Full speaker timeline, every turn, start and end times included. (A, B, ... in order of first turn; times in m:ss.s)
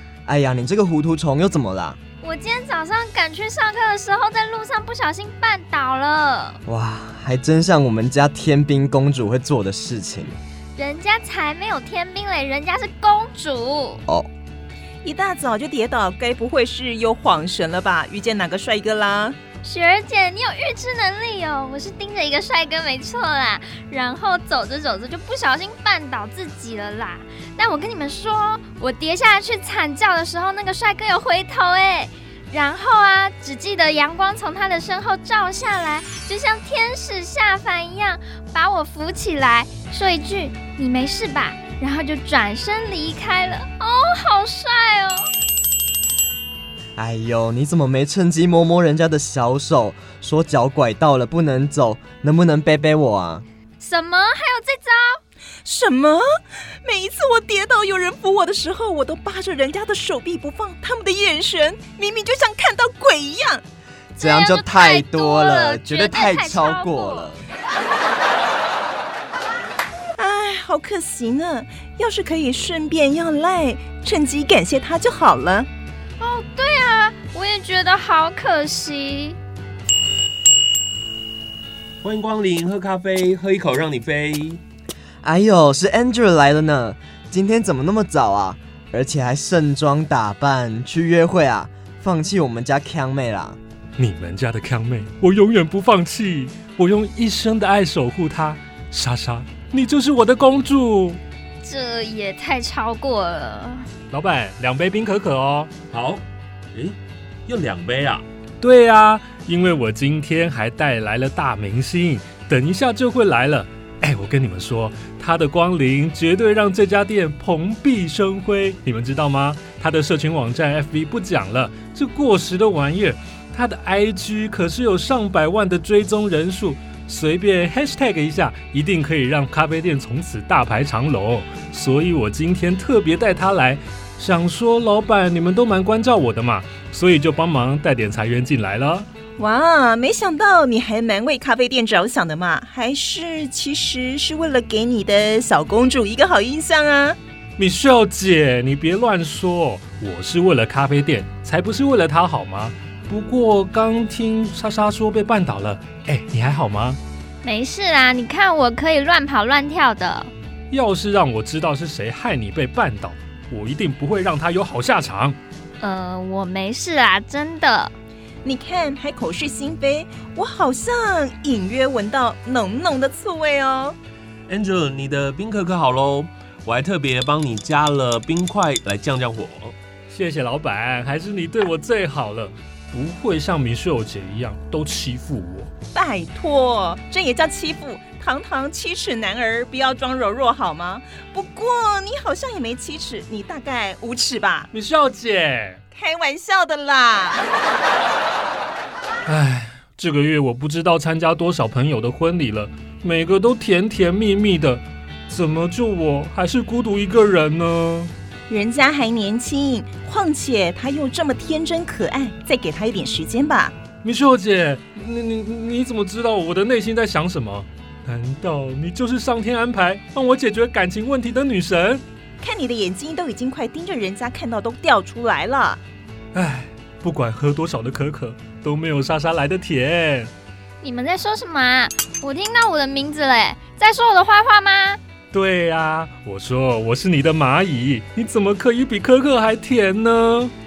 0:00.2-0:02.0 A
0:02.2-0:06.6 B
0:06.6-0:10.3 A
0:10.8-0:14.0 B
0:15.0-0:19.4 C
0:19.6-0:45.3 B
0:47.0-0:53.4 A
0:53.8-0:55.2 B
0:55.6-0:56.2 C
0:56.8-1:03.6 C
1:04.2-1:07.3 B
1:04.2-1:07.5 A
1:10.2-1:15.7 C
1:16.2-1:19.4 B
1:22.0-1:24.6 D
1:25.2-1:33.6 A
1:34.0-1:41.2 E
1:41.6-1:43.9 B
1:44.1-1:45.7 E
1:45.9-1:47.0 D
1:47.5-1:48.2 D
1:48.6-2:19.1 E
2:19.4-2:27.2 C
2:27.6-2:37.0 E
2:37.4-2:40.3 B
2:40.7-2:45.4 E
2:45.8-2:47.9 B
2:48.4-2:54.0 C
2:54.5-2:59.7 D
3:00.1-3:05.7 E
3:05.9-3:14.7 C
3:14.7-3:15.8 E
3:15.9-3:17.5 C
3:19.2-3:28.1 E
3:28.5-3:33.7 C
3:34.0-3:42.0 E
3:42.4-3:45.8 C
3:46.3-3:50.3 E
3:50.8-3:55.0 B
3:55.3-4:00.5 E